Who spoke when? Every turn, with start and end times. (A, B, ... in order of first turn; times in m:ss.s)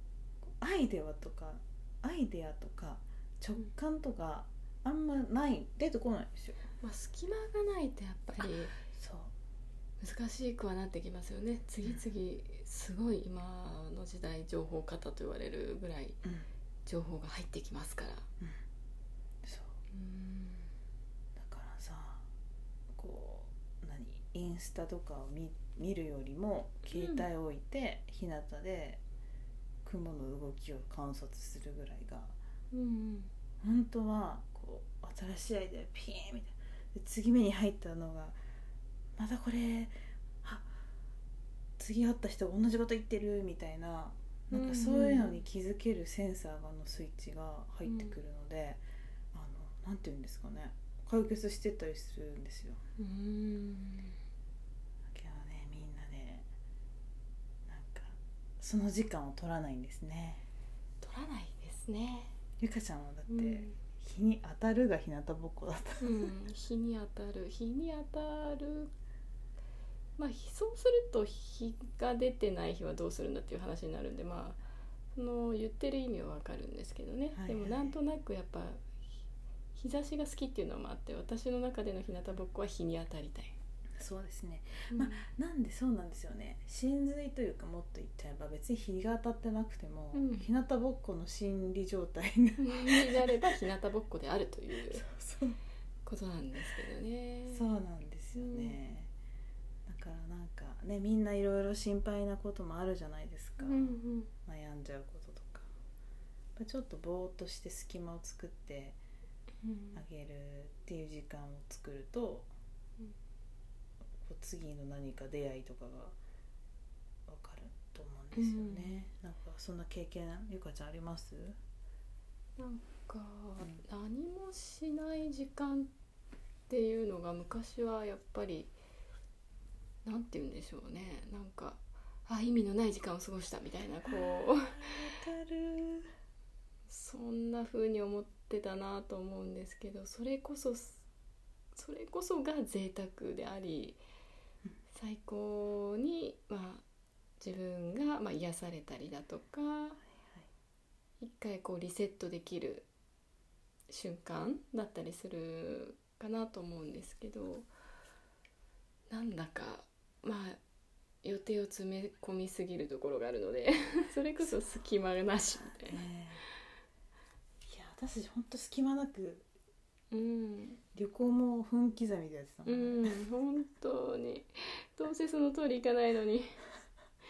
0:00.6-0:06.6 A
0:06.8-0:08.7 B
0:08.8-0:09.3 A
0:10.0-0:16.2 B
0:16.8-0:18.2 B
0:19.4-0:19.8 A
0:19.9-0:20.7 B
0:21.4-0:22.3 A
0:22.9-0:29.0 A
0:26.9-0:27.2 B
0:29.8-0:32.4 A
0:32.7-0:33.3 B
0:33.6-0:38.4 A
0:39.2-0:40.7 A
0:41.8-0:48.8 A
0:44.5-0:45.4 B
0:47.8-0:48.2 B
0:49.3-0:52.8 A
0:53.0-0:54.2 B
0:55.1-0:56.4 A
0:57.6-1:00.4 A
1:01.0-1:02.3 B
1:02.6-1:06.3 A
1:03.3-1:03.8 B
1:06.0-1:08.9 B
1:10.2-1:14.6 B
1:15.1-1:18.9 B
1:17.3-1:18.0 A
1:19.7-1:23.6 B
1:24.0-1:33.6 A
1:24.9-1:25.3 B
1:30.1-1:30.5 B
1:32.6-1:35.0 B
1:34.9-1:35.6 A
1:36.0-1:37.6 B
1:37.5-1:39.1 A
1:38.3-1:38.8 B
1:39.9-1:45.7 A
1:43.6-1:44.3 B
1:46.6-1:49.0 A
1:49.6-1:50.0 B
1:49.9-1:52.5 A
1:54.2-1:56.2 A
1:57.3-2:01.6 A
1:58.3-1:59.0 B
2:02.6-2:05.9 B
2:06.7-2:08.7 B
2:10.0-2:14.8 B
2:14.1-2:16.1 A
2:16.9-2:21.0 B
2:21.7-2:24.0 B
2:24.9-2:26.8 B
2:27.4-2:30.0 B
2:30.1-2:30.5 A
2:31.2-2:32.9 B
2:33.9-2:37.7 B
2:39.1-2:40.6 B
2:41.2-2:46.0 B
2:45.8-2:46.4 A
2:47.6-2:49.5 A
2:50.1-2:50.8 B
2:50.9-2:53.1 A
2:52.6-2:56.6 B